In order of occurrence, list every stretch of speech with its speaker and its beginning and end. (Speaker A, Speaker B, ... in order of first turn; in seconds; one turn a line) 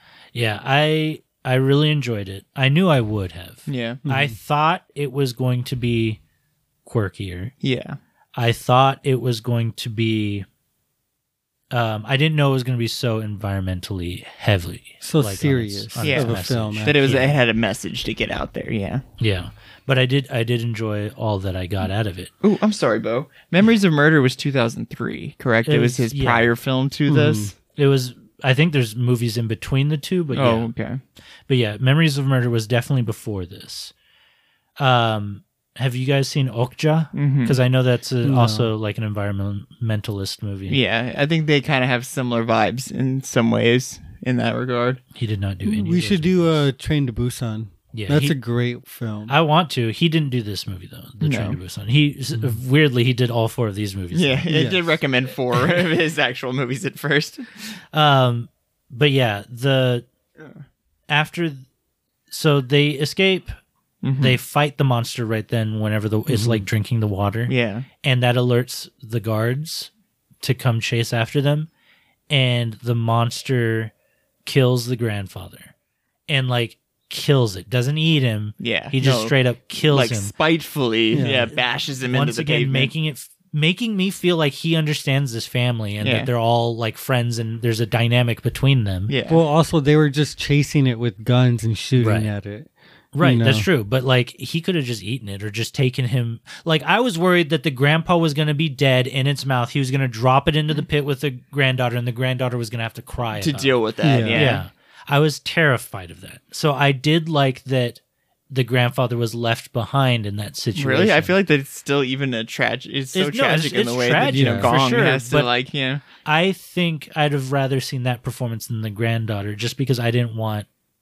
Speaker A: 0.3-6.2
Speaker B: 3.7-4.0
Speaker C: 4.0-4.3
Speaker A: 6.8-7.5
Speaker B: 7.6-8.0
Speaker A: 8.3-10.4
Speaker A: 11.7-17.3
Speaker C: 15.0-17.0
Speaker B: 16.0-19.0
Speaker A: 19.2-22.3
Speaker B: 22.4-27.5
Speaker A: 25.6-26.5
Speaker C: 27.1-27.5
Speaker A: 27.7-30.7
Speaker B: 30.3-31.0
Speaker A: 31.5-33.9
Speaker A: 34.8-40.8
Speaker B: 37.1-37.6
Speaker C: 38.2-38.7
Speaker B: 40.7-45.0
Speaker A: 45.1-46.6
Speaker C: 45.6-49.3
Speaker A: 47.9-48.4
Speaker A: 49.3-54.4
Speaker B: 51.2-51.6
Speaker B: 54.1-57.5
Speaker C: 54.5-54.8
Speaker A: 57.9-60.0
Speaker A: 61.1-61.6
Speaker A: 62.3-63.5
Speaker B: 64.0-64.4
Speaker A: 64.2-69.9
Speaker C: 66.3-66.6
Speaker B: 67.5-67.9
Speaker A: 70.4-71.7
Speaker A: 72.3-73.9
Speaker A: 74.4-75.7
Speaker A: 76.3-80.3
Speaker B: 78.6-82.9
Speaker C: 81.1-81.5
Speaker A: 81.5-89.1
Speaker B: 86.0-86.3
Speaker B: 89.1-89.4
Speaker C: 89.3-93.7
Speaker A: 92.0-92.3
Speaker A: 93.1-103.7
Speaker B: 103.4-104.6
Speaker C: 104.0-104.4
Speaker A: 104.3-108.0
Speaker A: 108.5-111.3
Speaker B: 110.8-116.0
Speaker A: 113.1-115.5
Speaker C: 114.2-114.7
Speaker A: 116.2-120.7